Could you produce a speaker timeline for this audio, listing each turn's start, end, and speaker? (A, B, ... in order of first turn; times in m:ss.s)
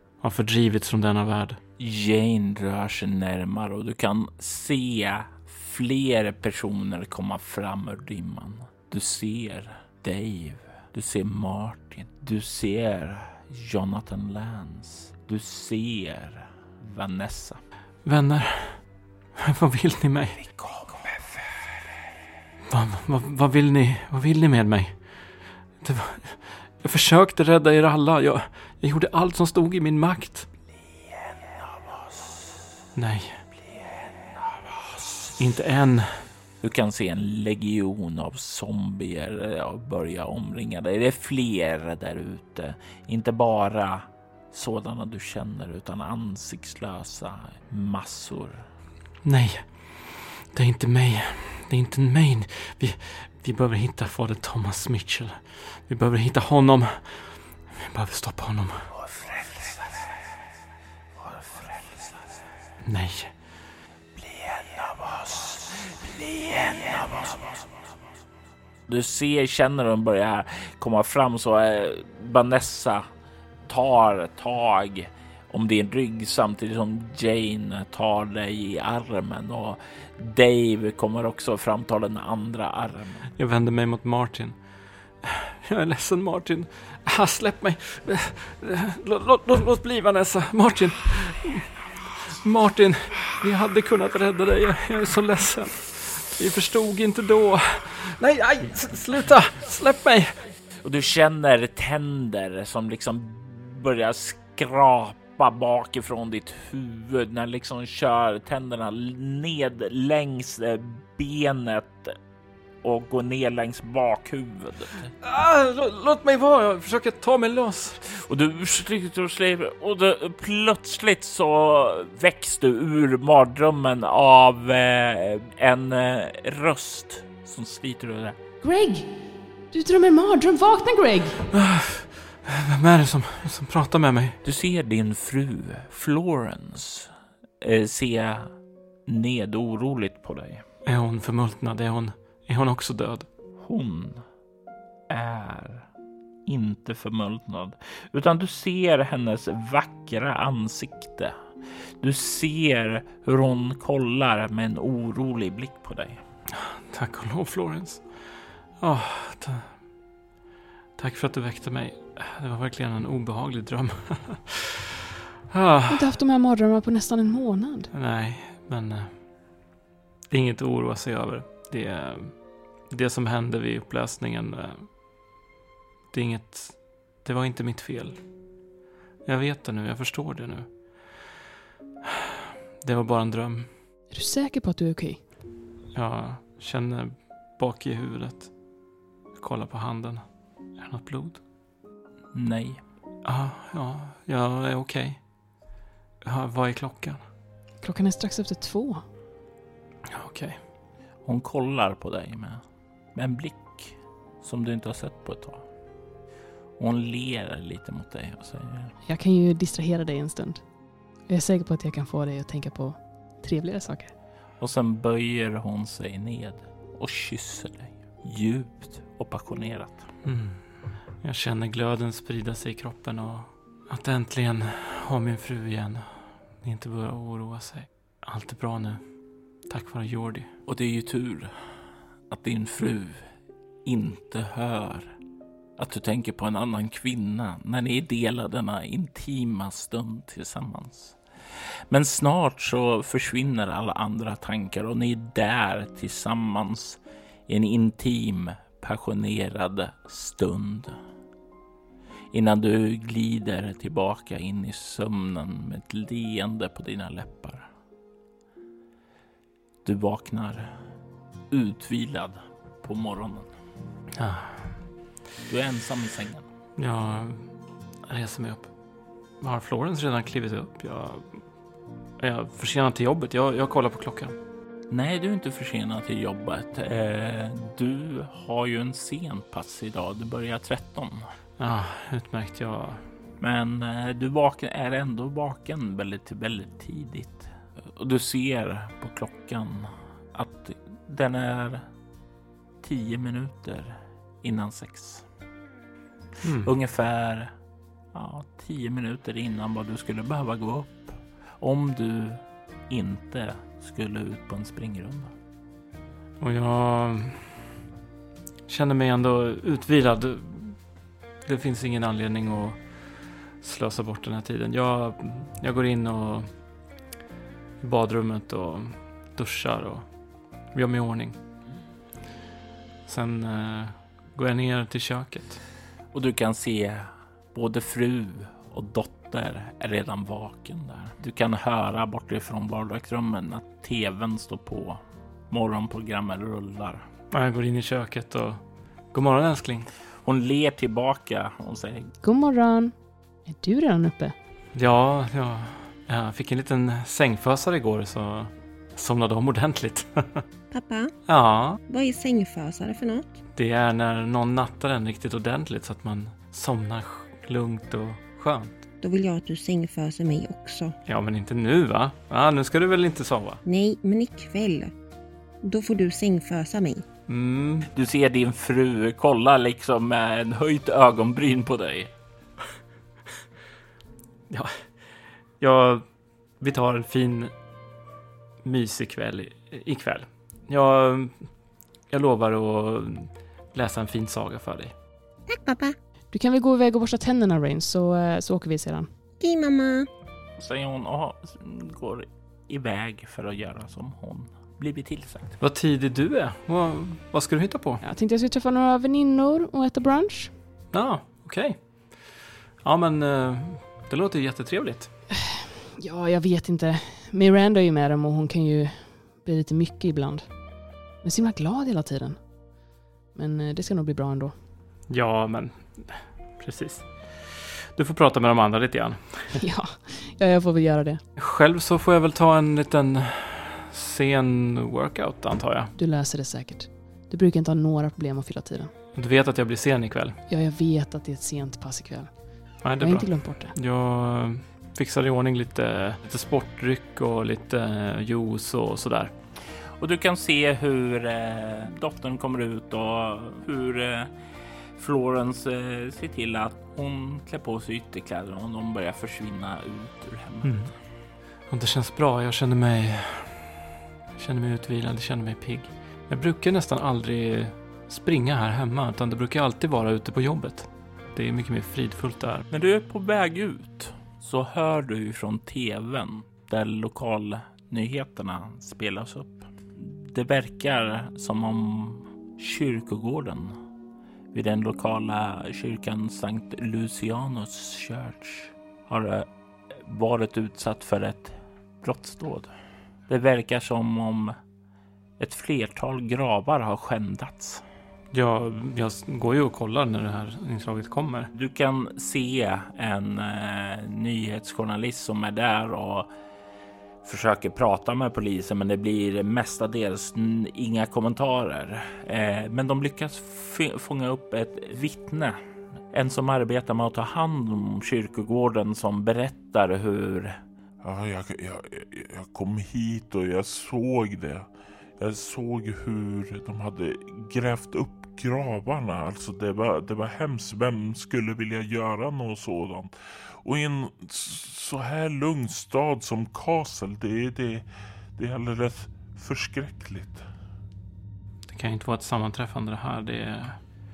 0:00.2-0:01.6 A
0:01.8-0:17.6 B
0:18.0-0:20.4 A
0:20.6-0:21.8 B
0:22.7-0:30.5 A
0:32.9-0:33.4 A
0:35.4-0:36.3 A
0:36.6-0:48.6 B
0:49.2-0:58.9 A
0:58.9-1:00.2 B
1:01.2-1:02.2 B
1:02.8-1:03.4 A
1:04.2-1:07.7 B
1:08.9-1:13.0 B
1:13.7-1:23.3 B
1:23.4-1:40.5 A
1:40.8-1:52.1 B
1:52.8-1:55.1 B
1:55.2-1:58.0 A
1:58.0-2:08.4 B
2:08.6-2:11.4 C
2:11.5-2:14.4 A
2:14.4-2:18.5 B
2:19.1-2:20.6 B
2:20.8-2:23.3 A
2:23.6-2:24.2 B
2:25.1-2:25.9 B
2:26.4-2:31.3 B
2:32.0-2:36.2 B
2:36.5-2:39.9 A
2:41.0-2:44.7 A
2:45.5-2:46.1 A
2:45.9-2:47.9 C
2:47.9-2:49.6 A
2:50.3-2:55.0 A
2:56.1-2:58.5 A
2:59.2-3:01.3 A
3:02.8-3:03.8 A
3:04.1-3:05.3 C
3:05.9-3:11.4 A
3:12.3-3:12.8 B
3:13.2-3:15.5 A
3:16.2-3:17.2 A
3:17.8-3:19.0 C
3:20.1-3:20.6 A
3:21.2-3:22.6 B
3:23.1-3:25.6 B
3:26.8-3:28.9 B
3:29.0-3:34.1 C
3:34.6-3:40.1 B
3:40.2-3:50.5 A
3:50.7-3:51.5 B
3:52.3-3:53.3 B
3:53.8-3:55.1 B
3:55.8-4:11.0 B
4:12.3-4:17.7 B
4:19.8-4:20.7 B
4:21.5-4:23.5 B
4:24.2-4:24.8 A
4:25.4-4:26.4 B
4:26.8-4:28.7 A
4:29.4-4:31.5 A
4:32.2-4:34.4 A
4:34.9-4:41.2 B
4:41.6-4:43.1 A
4:43.4-4:51.8 B
4:52.8-4:55.2 B
4:56.4-4:56.7 A
4:56.6-4:57.5 B
4:58.1-5:05.3 B
5:06.4-5:07.6 A
5:08.7-5:16.5 A
5:17.8-5:20.1 A
5:20.6-5:21.4 A
5:23.0-5:25.6 A
5:26.1-5:37.0 B
5:37.3-5:39.9 A
5:40.2-5:42.1 B
5:42.2-5:44.4 C
5:44.7-5:50.4 A
5:50.7-5:51.1 D
5:51.3-5:51.8 A
5:51.9-5:53.2 D
5:53.6-5:58.8 A
5:59.0-6:00.9 D
6:01.0-6:03.6 A
6:03.6-6:04.9 D
6:05.6-6:07.0 D
6:07.3-6:07.9 A
6:07.9-6:12.1 B
6:14.5-6:17.5 A
6:18.6-6:24.9 A
6:25.5-6:26.0 D
6:26.3-6:29.2 C
6:29.4-6:30.1 D
6:30.6-6:35.6 B
6:35.6-6:38.0 A
6:38.0-6:40.6 C
6:40.9-6:45.2 A
6:46.0-6:54.6 C
6:55.1-6:59.6 A
6:59.5-7:01.2 C
7:01.4-7:05.9 A
7:06.0-7:08.9 C
7:09.1-7:10.4 A
7:10.5-7:13.7 C
7:12.8-7:19.3 A
7:20.0-7:24.3 B
7:25.0-7:30.8 B
7:30.6-7:30.9 A
7:31.7-7:33.8 A
7:34.3-7:42.7 A
7:42.7-7:53.7 B
7:54.5-8:02.7 B
8:03.3-8:04.5 B
8:05.4-8:07.8 B
8:08.3-8:11.5 A
8:11.5-8:16.3 B
8:17.2-8:25.6 B
8:26.1-8:30.6 B
8:31.0-8:50.4 E
8:51.7-8:53.8 A